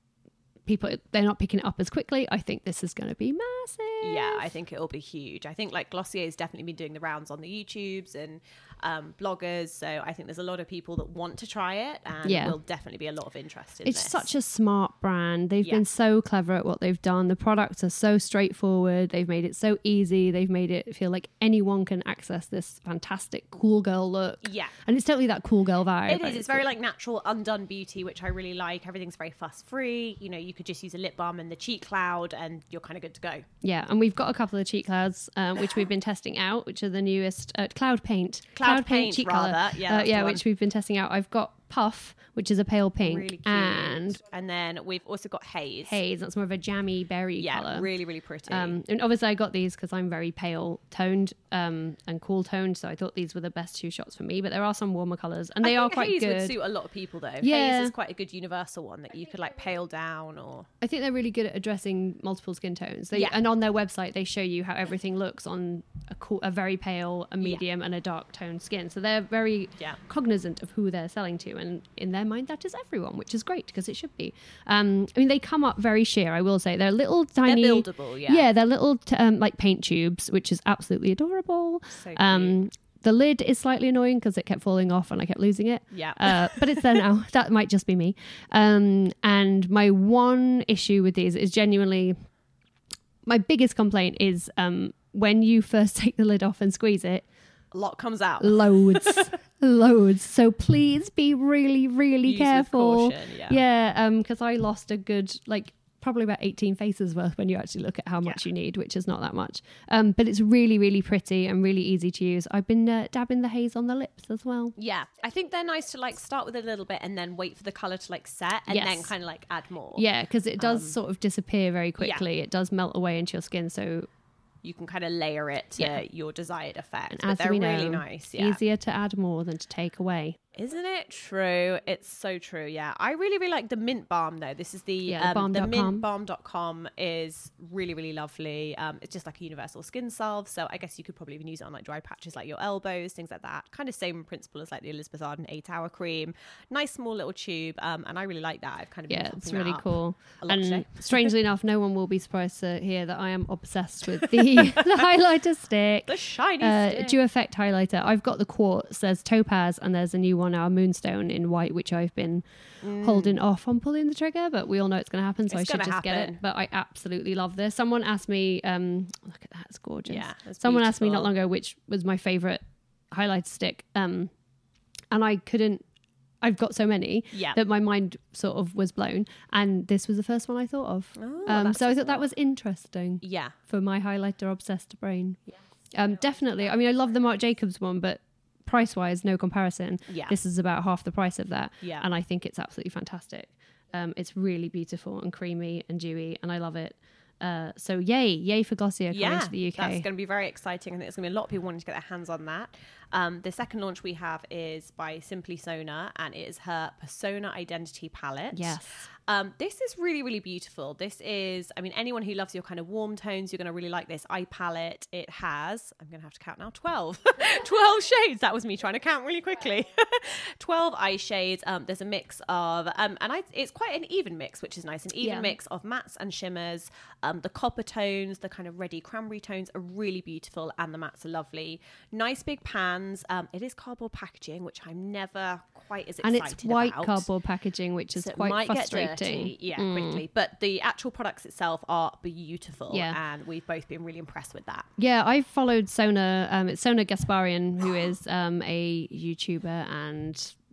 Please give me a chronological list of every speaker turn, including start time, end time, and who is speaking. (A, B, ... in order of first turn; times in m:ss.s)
0:00.6-0:04.5 A
0:04.0-0:14.2 B
0:12.2-0:12.6 A
0:13.8-0:26.6 A
0:24.4-0:24.8 B
0:26.1-0:33.5 B
0:33.6-0:44.2 A
0:38.6-0:40.4 B
0:43.0-0:46.0 B
0:45.9-0:47.9 A
0:47.4-0:48.8 B
0:48.5-0:56.5 A
0:55.6-1:00.7 B
0:57.4-0:57.9 A
1:00.8-1:32.2 A
1:03.1-1:03.4 B
1:17.4-1:18.5 B
1:21.9-1:22.6 B
1:25.9-1:26.9 B
1:33.2-1:37.2 A
1:37.7-1:39.3 B
1:38.4-1:54.7 A
1:42.2-1:43.6 B
1:54.8-2:00.0 B
1:58.7-1:59.1 A
1:59.9-2:04.1 A
2:00.6-2:01.0 B
2:02.0-2:02.2 B
2:04.6-2:08.6 B
2:07.1-2:10.4 A
2:10.5-2:31.3 B
2:15.0-2:16.0 A
2:29.1-2:42.4 A
2:34.2-2:35.0 B
2:36.0-2:37.2 B
2:42.8-2:43.4 B
2:43.0-2:54.3 A
2:45.5-2:46.4 B
2:50.0-2:51.3 B
2:55.1-2:55.8 A
2:56.4-3:05.4 A
2:57.3-2:57.6 B
3:01.2-3:02.3 B
3:03.2-3:03.5 B
3:05.9-3:20.0 A
3:10.1-3:10.4 B
3:19.1-3:57.3 B
3:28.5-3:29.0 A
3:45.2-3:45.6 A
3:56.2-4:00.2 A
3:58.1-4:04.9 B
4:02.9-4:03.2 A
4:05.0-4:10.5 A